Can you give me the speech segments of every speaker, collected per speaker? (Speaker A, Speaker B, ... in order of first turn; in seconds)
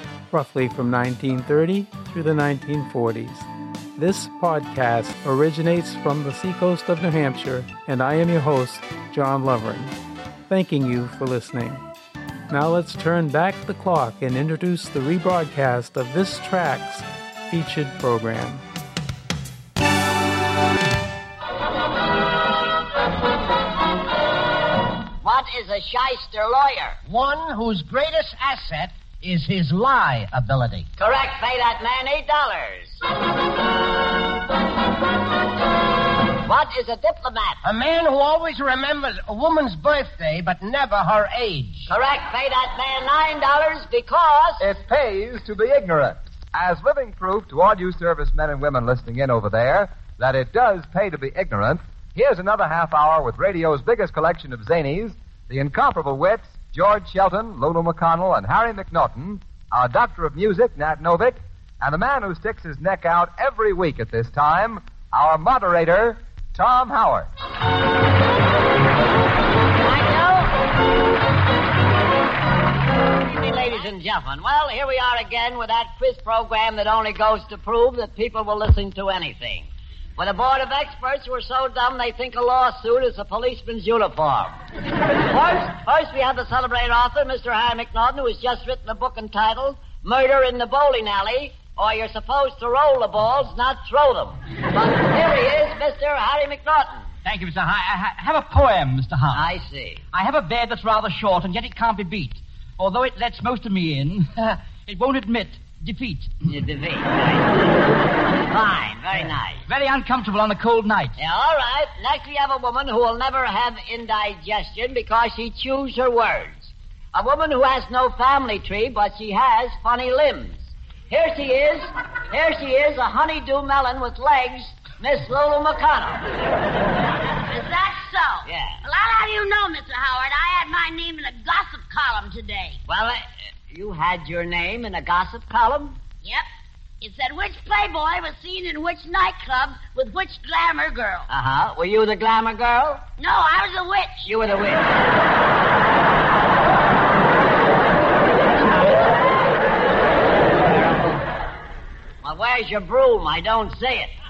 Speaker A: 0.3-9.9, 10.5-11.8, 12.5-18.6
Speaker B: 25.2-27.0, 31.0-33.0, 36.4-37.6, 41.9-44.6, 69.8-70.5, 73.1-97.1, 99.3-100.0, 106.5-109.6, 111.2-126.3, 128.4-128.8, 132.9-136.0, 141.3-143.1, 144.2-145.0, 148.5-149.1, 150.6-151.2, 152.2-154.1
Speaker C: 27.1-30.9, 37.6-41.9
Speaker D: 44.6-67.3
Speaker E: 97.2-99.5, 100.1-106.3, 109.7-111.2
Speaker F: 127.4-132.8, 137.0-141.3, 143.2-144.3